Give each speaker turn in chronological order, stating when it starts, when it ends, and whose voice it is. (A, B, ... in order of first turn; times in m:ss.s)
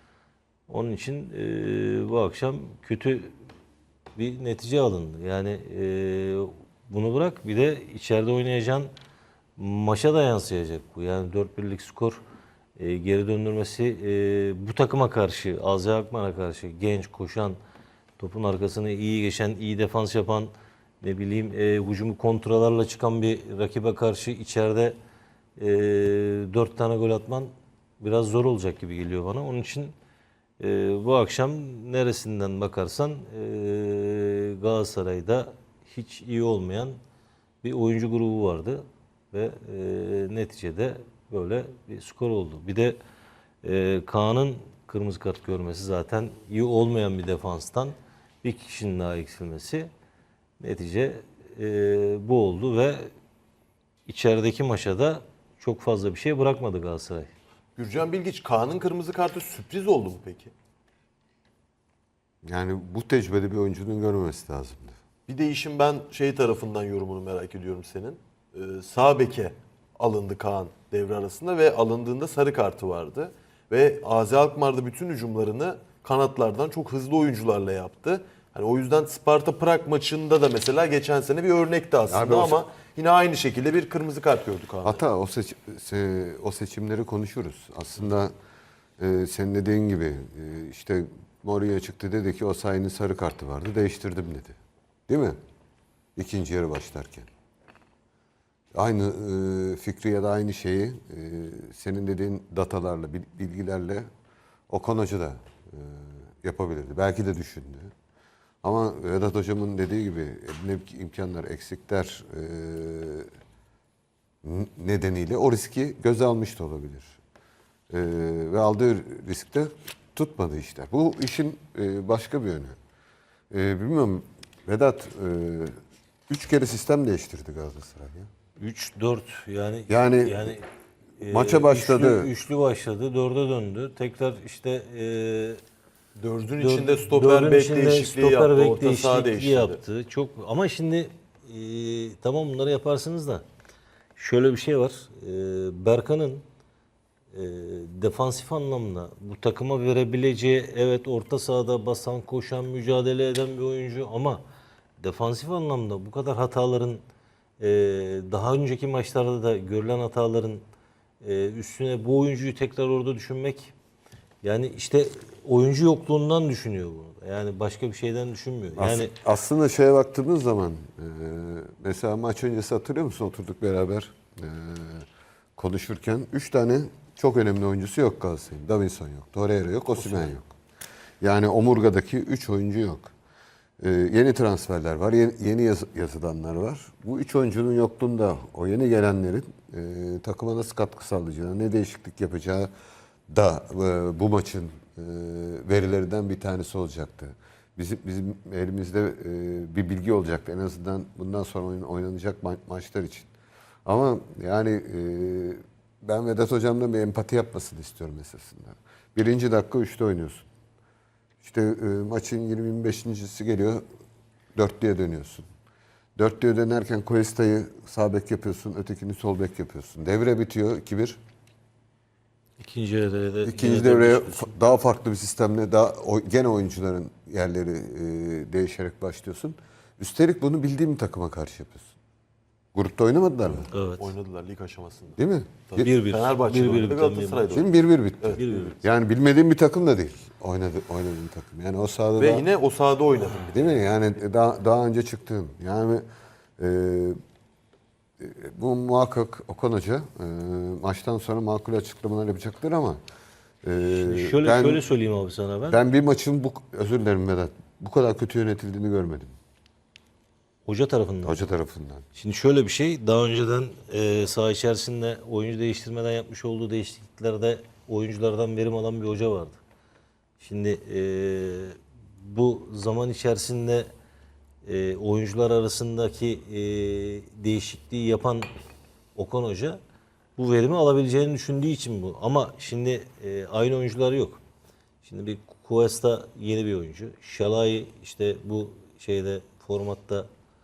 0:00.7-0:03.3 A
0:04.2-0:08.9 A
0:09.6-0:12.2 A
0:12.8-0:17.6 A
0:18.2-0:25.0 A
0:25.6-0:29.9 A
0:30.6-0:37.0 A
0:37.6-0:43.0 A
0:43.6-0:49.9 A
0:50.6-0:53.1 A
0:54.1-0:57.3 A
0:57.8-1:00.5 B
1:02.4-1:05.0 C
1:05.3-1:25.0 B
1:22.1-1:22.6 C
1:24.8-1:28.3 C
1:29.0-1:34.6 C
1:35.1-1:35.4 C
1:36.2-1:37.3 C
1:38.7-1:44.1 C
1:44.7-1:47.9 C
1:48.6-1:53.3 C
1:54.4-1:57.1 C
1:57.9-2:02.8 C
2:03.5-2:05.8 C
2:06.3-2:08.3 C
2:08.6-2:10.6 A
2:09.9-2:10.5 C
2:11.2-2:15.6 A
2:11.2-2:12.3 C
2:16.2-2:19.8 B
2:16.6-2:23.4 A
2:24.2-2:26.4 A
2:27.3-2:34.4 A
2:35.0-2:37.0 A
2:37.6-2:40.6 A
2:41.2-2:43.7 A
2:44.4-2:49.1 A
2:48.8-2:55.1 C
2:55.6-3:00.5 C
3:01.2-3:03.1 C
3:03.8-3:12.7 C
3:13.3-3:23.3 C
3:23.8-3:30.5 C
3:31.4-3:33.8 C
3:34.6-3:35.5 C
3:36.2-3:41.2 C
3:42.6-3:44.6 A
3:43.4-3:51.9 C
3:52.8-3:53.7 C
3:53.7-3:54.1 A
3:54.0-3:55.2 B
3:55.2-3:55.9 C
3:55.7-3:57.7 B
3:55.8-3:57.6 A
3:57.5-4:02.4 C
3:58.4-3:58.8 A
4:02.2-4:03.8 B
4:03.5-4:06.0 C
4:06.6-4:07.2 C
4:08.2-4:13.0 C
4:13.6-4:14.8 C
4:14.0-4:15.8 A
4:15.7-4:19.4 C
4:20.7-4:21.5 A
4:21.2-4:22.0 C
4:22.2-4:29.6 A
4:30.4-4:33.9 A
4:34.6-4:38.5 A
4:39.2-4:39.8 A
4:40.4-4:44.4 A
4:45.0-4:50.3 A